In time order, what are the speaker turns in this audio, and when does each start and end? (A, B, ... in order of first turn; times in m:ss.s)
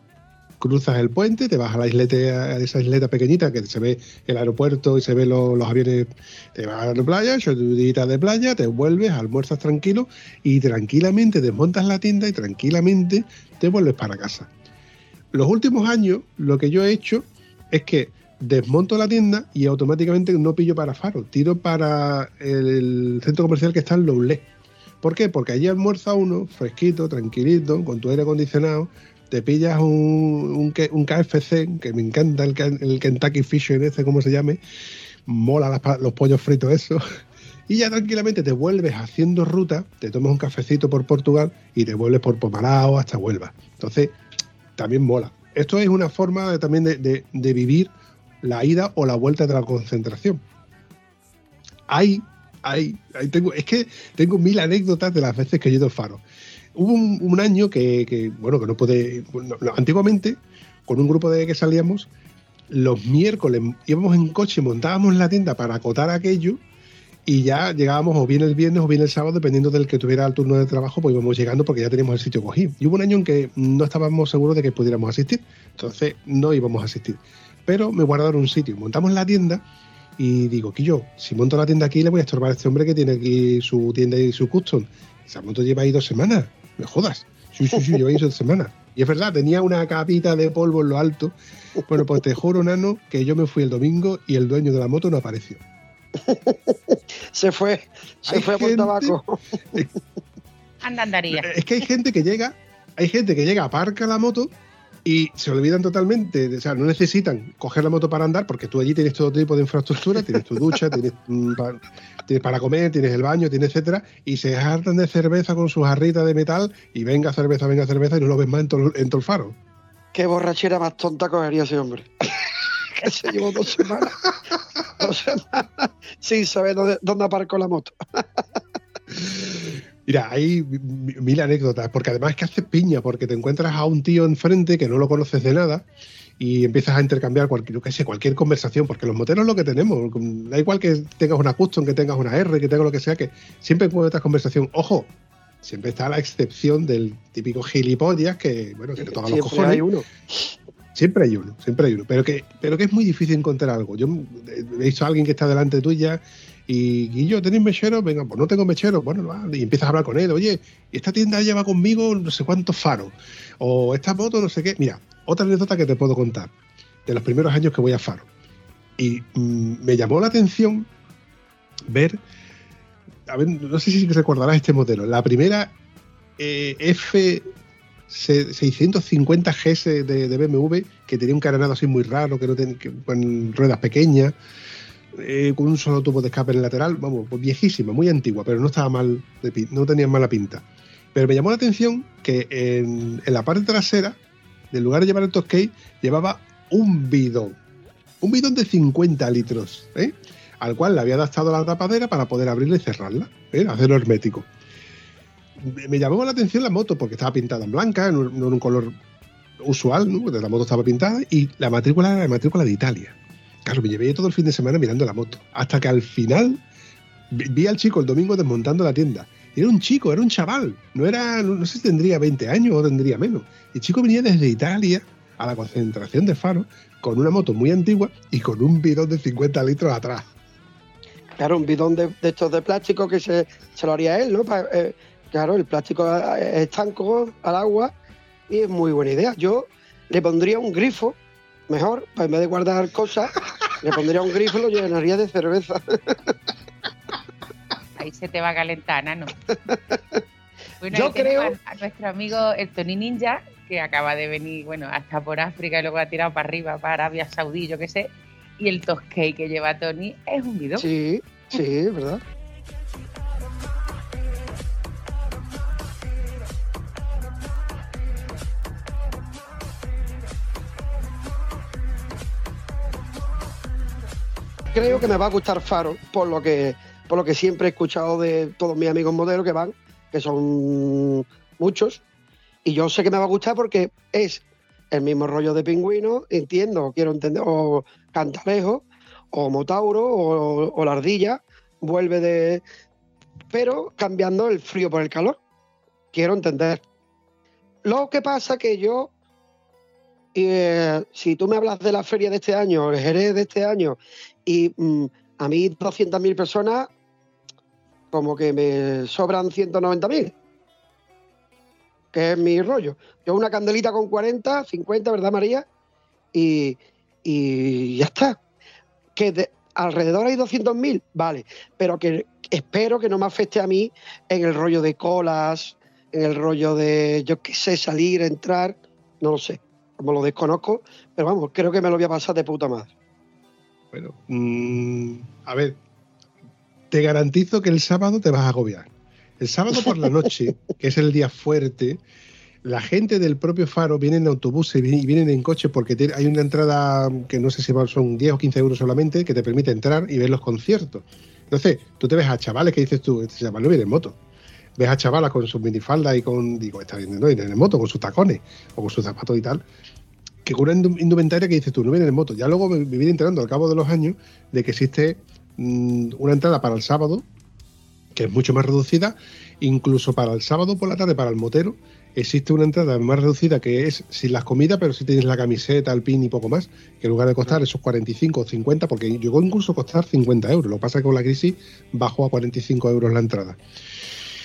0:00.6-0:14.5 A
0:15.3-0:24.4 A
0:25.0-0:34.6 A
0:35.3-0:37.0 A
0:37.7-0:44.2 A
0:44.8-0:47.9 A
0:48.4-0:50.4 A
0:51.9-0:56.2 A
0:56.7-1:02.1 A
1:02.7-1:06.6 A
1:07.2-1:19.6 A
1:20.2-1:31.3 A
1:31.9-1:35.6 A
1:36.2-1:39.9 B
1:38.2-1:39.2 A
1:40.8-1:41.5 C
1:41.3-1:44.5 A
1:45.0-1:59.6 A
2:00.1-2:04.2 B
2:05.0-2:08.4 B
2:09.1-2:15.8 A
2:16.4-2:25.1 A
2:25.6-2:29.8 A
2:29.0-2:30.5 B
2:30.9-2:46.5 A
2:47.0-2:48.3 A
2:49.0-2:50.9 A
2:51.9-2:52.2 A
2:53.3-2:55.7 A
2:56.4-2:57.5 A
2:58.1-3:04.3 A
3:05.1-3:14.2 A
3:14.7-3:17.6 A
3:18.2-3:24.5 A
3:25.6-3:28.9 A
3:29.6-3:36.6 A
3:37.3-3:50.3 A
3:51.4-3:57.9 B
3:58.5-4:01.1 B
4:01.7-4:06.3 B
4:08.0-4:09.3 C
4:09.5-4:10.2 B
4:10.8-4:20.8 C
4:10.9-4:11.5 B
4:20.8-4:22.2 B
4:34.7-4:42.0 B
4:42.6-4:52.6 B
4:53.5-4:55.4 B
4:56.1-4:56.8 B
4:57.8-4:59.1 B
5:00.3-5:06.9 B
5:08.1-5:10.3 B
5:12.1-5:15.6 B
5:16.3-5:18.4 B
5:19.2-5:32.9 B
5:33.9-5:35.8 A
5:36.9-5:42.0 A
5:42.6-5:54.2 A
5:54.8-5:59.6 A
6:00.4-6:07.2 A
6:08.1-6:23.6 A